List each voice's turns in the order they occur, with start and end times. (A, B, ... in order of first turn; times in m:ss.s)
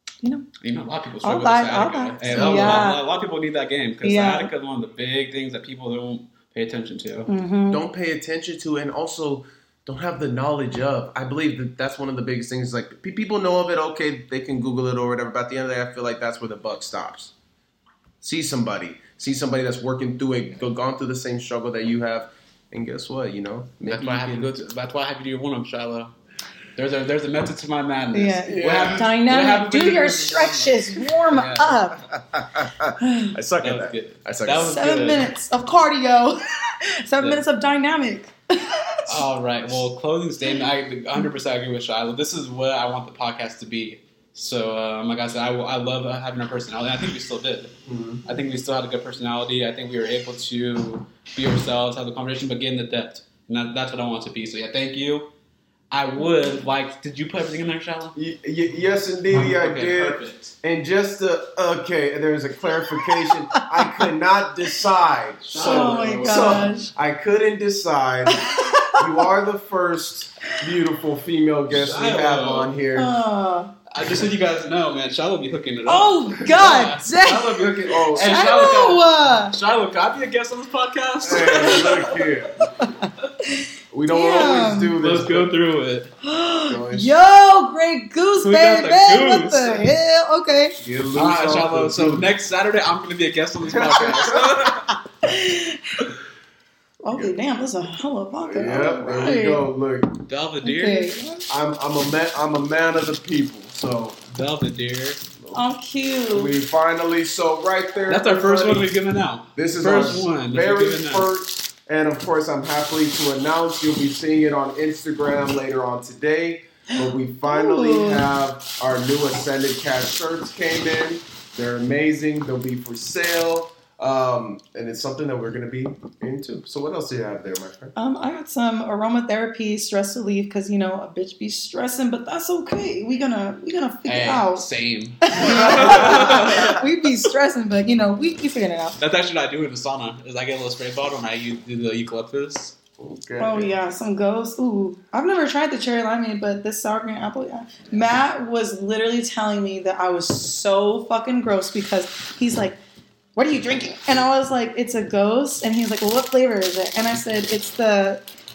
0:00.6-0:07.3 A
0:01.2-0:03.0 B
0:02.2-0:02.9 C
0:04.0-0:04.5 B
0:07.3-0:07.8 B
0:07.7-0:17.3 C
0:18.2-0:24.5 C
0:23.8-0:26.1 A
0:26.8-0:31.9 A
0:28.1-0:32.0 B
0:28.4-0:29.1 C
0:32.1-0:34.8 C
0:33.0-0:33.4 B
0:33.6-0:35.3 A
0:34.5-0:39.2 B
0:39.1-0:55.3 A
0:47.9-0:48.2 C
0:55.9-0:58.1 A
0:56.2-0:56.6 B
0:58.2-1:13.2 C
0:59.3-1:00.5 A
1:03.5-1:04.0 B
1:05.5-1:06.8 A
1:05.5-1:06.9 B
1:08.3-1:09.2 B
1:11.7-1:12.7 A
1:12.9-1:13.7 B
1:13.9-1:22.3 A
1:15.8-1:17.6 B
1:17.2-1:18.8 C
1:18.2-1:19.6 B
1:21.2-1:22.7 C
1:21.3-1:24.9 B
1:23.9-1:25.5 C
1:25.0-1:26.1 A
1:26.2-1:30.7 B
1:26.7-1:27.2 C
1:28.4-1:29.9 A
1:30.8-1:32.3 C
1:31.1-1:34.9 A
1:33.6-1:34.5 C
1:35.2-1:36.0 B
1:37.0-1:39.7 B
1:38.4-1:40.1 C
1:40.3-1:41.2 A
1:40.6-1:41.4 B
1:41.5-1:44.2 C
1:44.3-1:45.3 A
1:45.5-1:46.5 B
1:46.3-1:48.9 C
1:48.1-1:51.3 A
1:49.6-2:08.0 C
1:57.5-1:58.3 B
2:08.0-2:14.7 B
2:14.0-2:16.8 A
2:15.2-2:19.0 B
2:15.7-2:16.5 C
2:19.0-2:22.8 A
2:23.0-2:23.7 C
2:23.4-2:32.8 B
2:33.4-2:38.2 B